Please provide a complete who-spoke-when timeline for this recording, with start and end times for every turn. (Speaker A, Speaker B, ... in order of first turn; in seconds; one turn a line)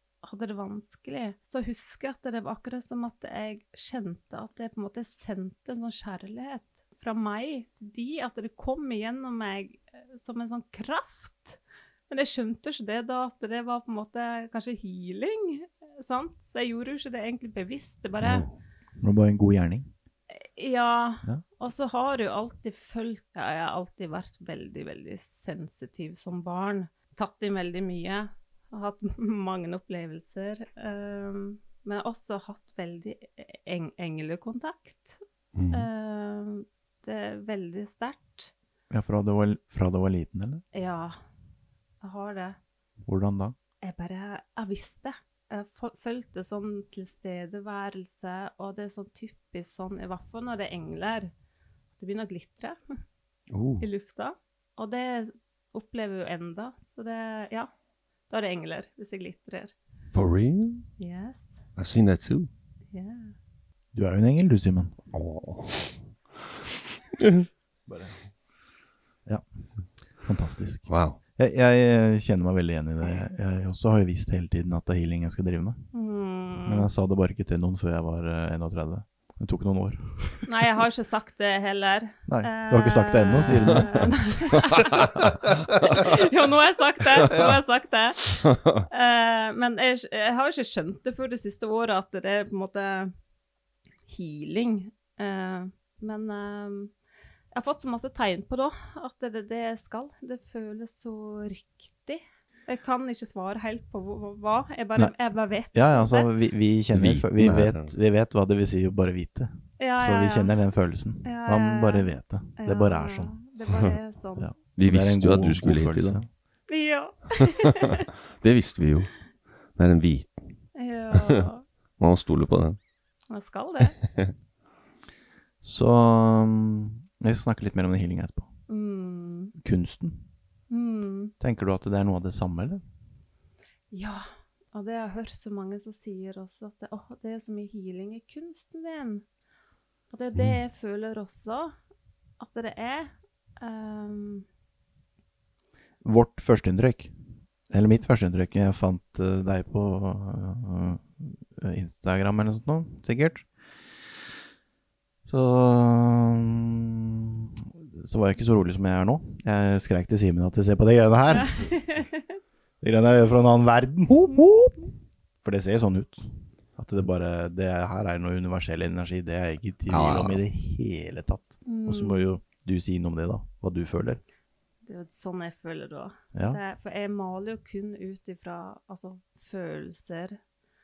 Speaker A: 0.2-18.5
Speaker B: 18.2-18.5
Speaker C: 19.0-19.9
Speaker A: 20.3-38.5
Speaker B: 35.5-35.9
Speaker C: 38.9-40.6
Speaker A: 40.7-41.1
Speaker A: 42.0-42.6
Speaker C: 43.0-43.5
Speaker A: 43.8-51.3
Speaker A: 52.0-52.8
Speaker B: 53.5-53.9
Speaker A: 53.8-57.7
Speaker A: 58.3-59.7
Speaker B: 60.1-60.9
Speaker A: 61.0-61.5
Speaker B: 61.8-62.5
Speaker A: 62.9-63.3
Speaker C: 63.9-64.9
Speaker B: 65.1-66.0
Speaker B: 67.2-67.5
Speaker C: 67.9-68.1
Speaker C: 70.2-75.9
Speaker B: 70.9-71.2
Speaker A: 75.9-76.9
Speaker C: 76.7-80.5
Speaker A: 80.5-85.1
Speaker C: 82.3-84.1
Speaker A: 85.9-93.1
Speaker C: 87.3-87.5
Speaker B: 88.5-88.8
Speaker A: 94.1-96.9
Speaker A: 97.5-106.3
Speaker C: 105.7-113.3
Speaker B: 106.9-107.9
Speaker A: 109.8-110.5
Speaker A: 111.2-114.5
Speaker C: 114.4-116.3
Speaker B: 114.8-116.2
Speaker A: 116.7-118.0
Speaker B: 118.4-119.1
Speaker B: 119.8-120.4
Speaker A: 120.7-121.6
Speaker B: 122.0-122.8
Speaker A: 123.3-124.0
Speaker C: 125.6-128.5
Speaker A: 128.7-129.5
Speaker C: 129.6-130.3
Speaker A: 130.7-131.3
Speaker C: 131.4-132.8
Speaker A: 133.9-139.2
Speaker A: 140.1-141.7
Speaker A: 142.4-144.4
Speaker C: 146.0-147.1
Speaker C: 147.7-153.5
Speaker C: 155.2-161.6
Speaker A: 161.3-162.2
Speaker C: 162.8-164.2
Speaker B: 164.1-164.7
Speaker C: 165.4-174.2
Speaker B: 169.9-170.4
Speaker A: 171.7-172.3
Speaker A: 174.8-180.4
Speaker C: 176.3-176.6